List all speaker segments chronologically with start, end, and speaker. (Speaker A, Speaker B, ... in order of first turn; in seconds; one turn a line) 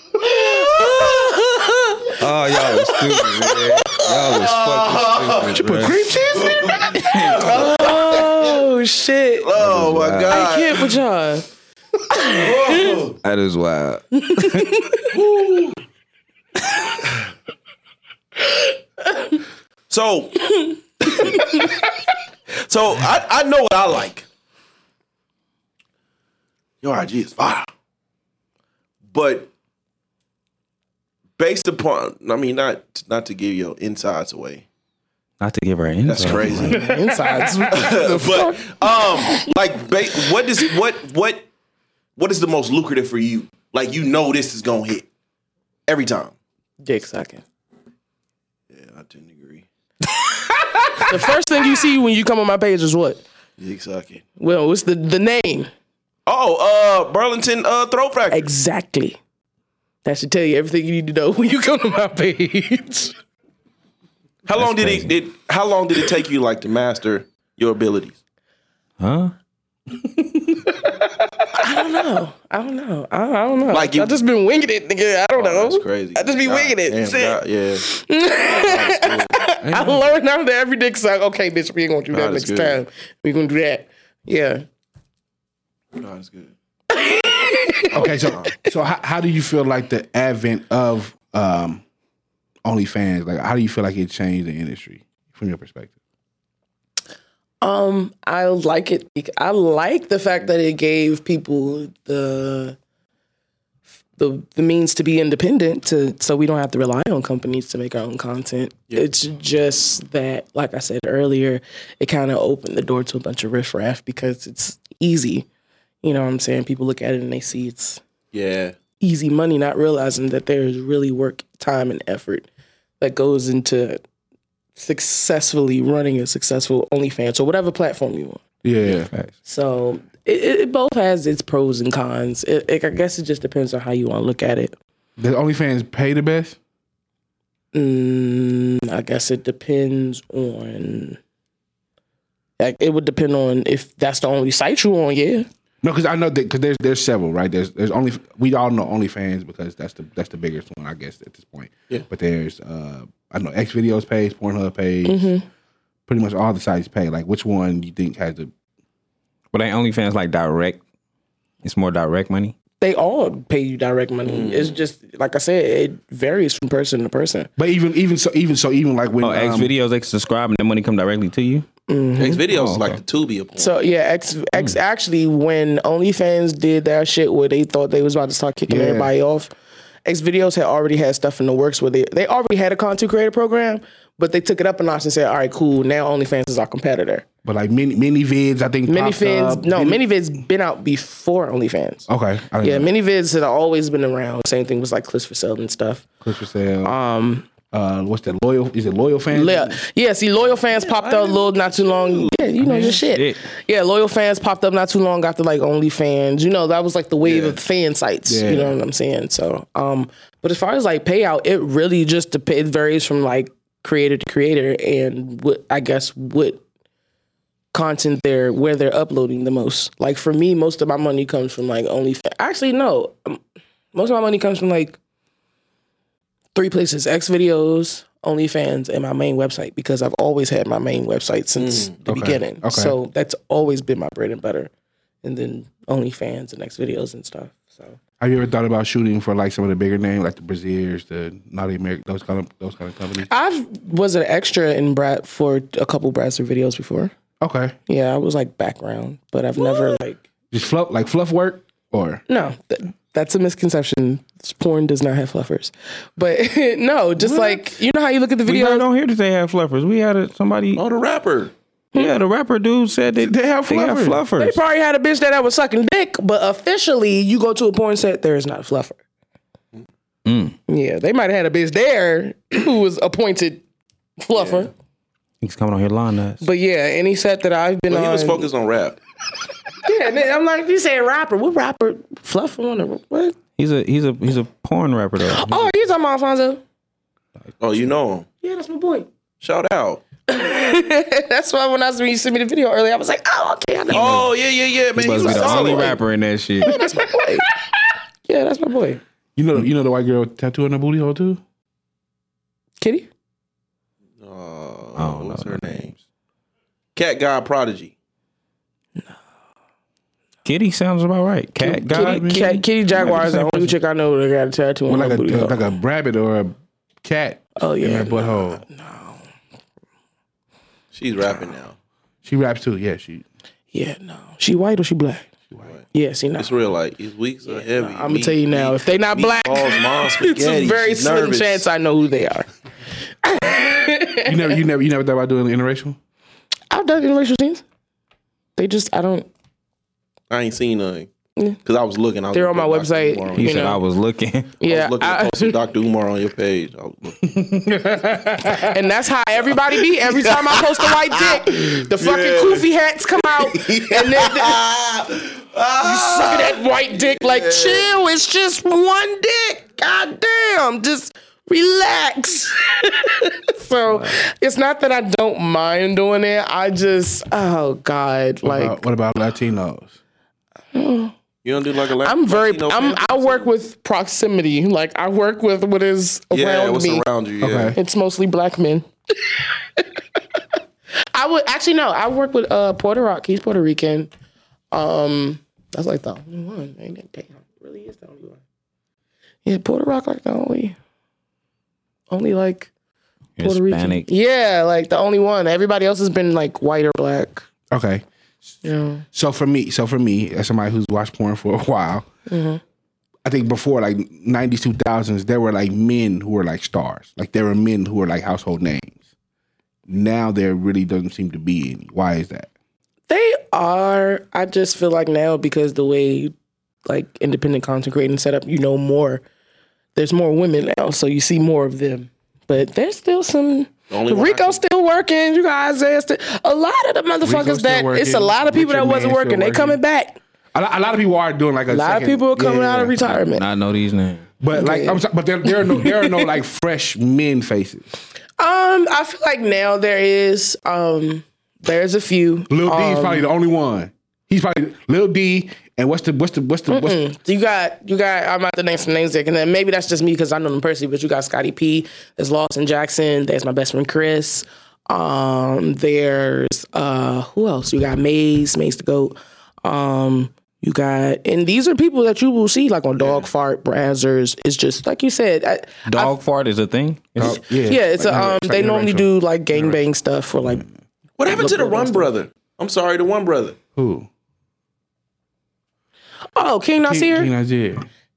Speaker A: 0.2-4.2
Speaker B: 0.2-1.4
Speaker C: 2.2-6.2
Speaker B: 4.2-5.6
Speaker D: 5.5-7.0
Speaker B: 6.3-8.7
Speaker C: 7.1-7.6
Speaker A: 7.3-9.5
Speaker B: 9.4-11.0
Speaker C: 9.6-10.5
Speaker A: 10.3-11.4
Speaker A: 12.1-13.0
Speaker B: 12.1-13.2
Speaker C: 13.2-14.7
Speaker A: 14.2-15.1
Speaker B: 15.1-15.8
Speaker A: 18.4-19.4
Speaker B: 19.9-20.5
Speaker A: 20.6-21.9
Speaker B: 21.0-21.7
Speaker B: 22.6-24.3
Speaker B: 26.8-27.7
Speaker B: 29.1-29.5
Speaker B: 31.4-34.6
Speaker C: 35.4-36.9
Speaker B: 36.1-36.9
Speaker A: 36.6-39.5
Speaker B: 37.7-41.5
Speaker B: 42.2-45.1
Speaker B: 45.9-46.4
Speaker A: 46.8-47.4
Speaker B: 48.7-49.7
Speaker A: 50.1-53.2
Speaker B: 53.6-54.2
Speaker A: 54.4-55.7
Speaker B: 56.3-58.5
Speaker A: 58.3-59.2
Speaker A: 60.0-63.2
Speaker B: 64.5-68.2
Speaker C: 64.6-65.2
Speaker C: 69.0-69.3
Speaker A: 70.9-84.7
Speaker B: 73.7-74.2
Speaker B: 75.3-77.9
Speaker B: 78.5-79.4
Speaker C: 79.6-80.1
Speaker B: 82.1-82.8
Speaker B: 86.0-86.5
Speaker A: 86.9-88.1
Speaker B: 87.9-88.5
Speaker D: 87.9-91.8
Speaker D: 92.7-95.9
Speaker A: 97.6-102.8
Speaker A: 104.2-115.5
Speaker A: 116.0-118.0
Speaker B: 118.3-118.8
Speaker A: 119.0-122.5
Speaker A: 123.0-124.0
Speaker A: 124.8-128.4
Speaker D: 128.6-129.1
Speaker A: 129.4-134.8
Speaker D: 135.2-136.6
Speaker A: 137.7-141.2
Speaker A: 142.6-145.5
Speaker D: 145.8-155.3
Speaker A: 155.1-155.4
Speaker D: 156.1-158.5
Speaker C: 159.5-160.8
Speaker C: 161.6-162.6
Speaker A: 162.8-167.5
Speaker B: 164.2-164.8
Speaker D: 167.6-169.7
Speaker C: 169.2-171.7
Speaker A: 171.9-172.4
Speaker B: 172.2-173.8
Speaker C: 172.5-173.0
Speaker A: 173.6-179.5
Speaker D: 178.7-179.1
Speaker A: 180.1-187.3
Speaker D: 187.4-190.0
Speaker A: 188.9-192.1
Speaker D: 192.1-192.9
Speaker A: 192.6-196.1
Speaker D: 196.2-197.0
Speaker A: 196.8-197.5
Speaker D: 197.7-199.8
Speaker A: 199.3-216.6
Speaker B: 200.7-202.6
Speaker C: 202.6-203.4
Speaker B: 207.2-207.6
Speaker D: 208.3-208.8
Speaker A: 217.7-223.4
Speaker A: 223.9-225.0
Speaker A: 226.6-234.7
Speaker B: 231.6-231.9
Speaker D: 232.1-233.0
Speaker A: 235.2-238.0
Speaker D: 238.2-243.3
Speaker A: 243.2-247.1
Speaker D: 247.4-247.8
Speaker A: 247.9-250.2
Speaker D: 250.5-252.2
Speaker A: 252.3-258.9
Speaker D: 257.3-257.6
Speaker C: 258.5-260.8
Speaker B: 260.8-261.5
Speaker C: 261.9-264.6
Speaker D: 263.2-264.2
Speaker A: 264.4-269.0
Speaker C: 270.2-270.6
Speaker A: 270.7-273.6
Speaker A: 274.2-274.7
Speaker B: 274.3-274.7
Speaker C: 275.4-276.4
Speaker A: 276.4-278.5
Speaker B: 277.9-279.0
Speaker A: 279.8-283.4
Speaker C: 283.6-285.7
Speaker A: 285.2-286.6
Speaker B: 287.6-288.3
Speaker A: 288.4-289.1
Speaker B: 289.4-290.0
Speaker A: 290.3-294.3
Speaker B: 293.9-296.0
Speaker C: 294.9-296.9
Speaker A: 295.1-296.0
Speaker A: 296.6-297.5
Speaker A: 298.3-299.0
Speaker D: 299.4-301.4
Speaker A: 302.8-303.1
Speaker B: 304.2-306.0
Speaker C: 305.0-305.9
Speaker B: 306.9-307.9
Speaker C: 310.4-313.7
Speaker A: 311.7-315.6
Speaker D: 311.7-313.4
Speaker D: 314.9-318.6
Speaker A: 317.6-319.2
Speaker B: 320.9-321.8
Speaker D: 322.2-323.2
Speaker A: 323.7-325.3
Speaker A: 325.9-326.5
Speaker B: 326.4-331.7
Speaker A: 327.5-332.5
Speaker A: 333.2-334.6
Speaker D: 334.2-336.0
Speaker A: 336.7-337.6
Speaker A: 338.6-339.3
Speaker B: 340.3-341.1
Speaker B: 341.6-343.7
Speaker A: 342.3-343.8
Speaker C: 343.4-344.6
Speaker A: 344.6-345.6
Speaker B: 344.6-347.2
Speaker D: 347.3-348.7
Speaker A: 348.5-354.6
Speaker B: 350.1-357.9
Speaker A: 355.8-368.8
Speaker D: 368.4-370.0
Speaker A: 370.7-371.1
Speaker B: 371.4-373.5
Speaker A: 372.0-377.1
Speaker B: 376.3-377.8
Speaker D: 377.4-377.8
Speaker A: 377.7-380.4
Speaker A: 381.1-384.1
Speaker A: 384.7-388.4
Speaker A: 389.4-390.8
Speaker A: 392.1-392.7
Speaker C: 393.4-394.1
Speaker A: 393.4-397.5
Speaker D: 397.7-398.1
Speaker A: 398.6-399.1
Speaker D: 399.1-402.1
Speaker A: 402.3-402.6
Speaker D: 403.2-409.0
Speaker D: 409.9-412.5
Speaker A: 413.1-416.3
Speaker A: 416.9-419.2
Speaker A: 419.9-430.2
Speaker B: 423.9-424.6
Speaker D: 427.2-429.8
Speaker D: 430.5-433.2
Speaker A: 431.7-433.5
Speaker C: 433.3-434.3
Speaker D: 434.4-437.9
Speaker A: 434.5-436.3
Speaker A: 438.4-443.3
Speaker D: 442.5-447.0
Speaker A: 446.7-466.1
Speaker B: 463.0-463.3
Speaker C: 465.9-467.4
Speaker D: 467.2-469.8
Speaker A: 467.2-470.7
Speaker B: 471.2-473.6
Speaker A: 471.2-472.1
Speaker D: 473.8-474.1
Speaker A: 476.4-477.3
Speaker D: 476.8-477.9